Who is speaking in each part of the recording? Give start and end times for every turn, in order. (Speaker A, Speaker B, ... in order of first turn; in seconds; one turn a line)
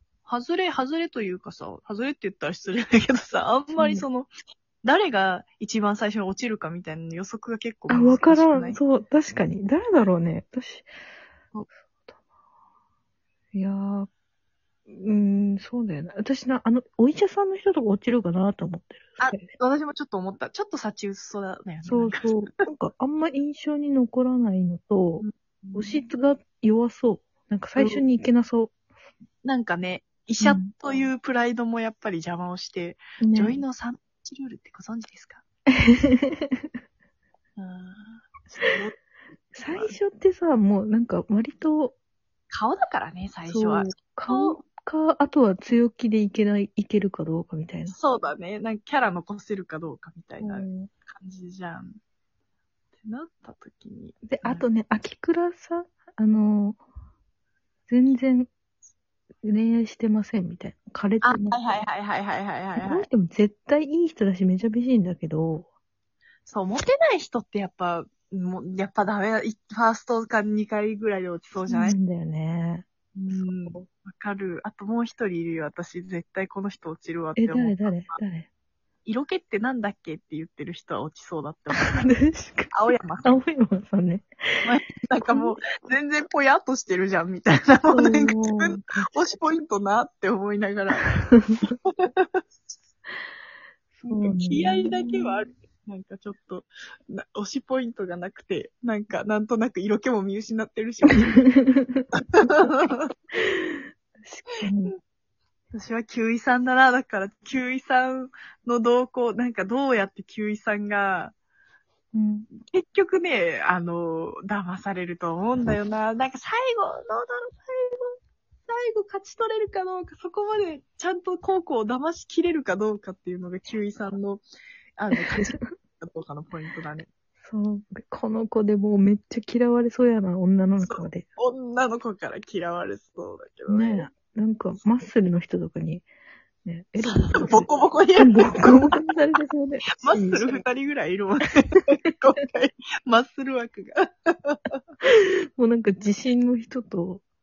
Speaker A: 0.2-4.3
Speaker B: 3.7-4.0
Speaker A: 4.8-8.8
Speaker B: 7.9-10.9
Speaker B: 13.5-14.1
Speaker B: 14.9-19.5
Speaker A: 19.2-22.5
Speaker B: 21.8-28.7
Speaker A: 25.2-26.0
Speaker A: 27.8-28.0
Speaker A: 29.4-35.4
Speaker B: 30.4-30.7
Speaker B: 33.2-33.6
Speaker B: 35.8-36.5
Speaker A: 37.6-38.9
Speaker B: 39.5-42.0
Speaker A: 39.6-39.9
Speaker A: 42.5-44.6
Speaker B: 43.5-48.0
Speaker A: 47.9-52.0
Speaker B: 50.4-50.9
Speaker A: 53.0-54.7
Speaker B: 54.3-56.8
Speaker B: 57.9-58.5
Speaker B: 59.4-61.6
Speaker A: 61.2-63.1
Speaker B: 62.8-65.7
Speaker A: 66.5-72.0
Speaker B: 71.7-73.8
Speaker A: 73.2-78.2
Speaker B: 77.3-78.5
Speaker A: 79.0-82.0
Speaker B: 81.7-84.7
Speaker A: 82.7-83.3
Speaker A: 84.6-91.2
Speaker B: 87.9-89.1
Speaker B: 91.0-91.5
Speaker A: 91.8-92.4
Speaker B: 94.0-95.4
Speaker A: 94.1-101.4
Speaker B: 101.3-102.0
Speaker A: 102.2-103.1
Speaker B: 103.4-104.9
Speaker A: 105.7-111.3
Speaker B: 112.1-112.5
Speaker A: 112.6-118.1
Speaker A: 118.7-124.4
Speaker A: 125.0-127.1
Speaker B: 125.3-125.6
Speaker B: 127.4-131.2
Speaker A: 130.8-134.1
Speaker B: 133.7-136.1
Speaker B: 136.6-140.6
Speaker A: 137.0-139.1
Speaker A: 139.9-144.7
Speaker B: 145.0-147.2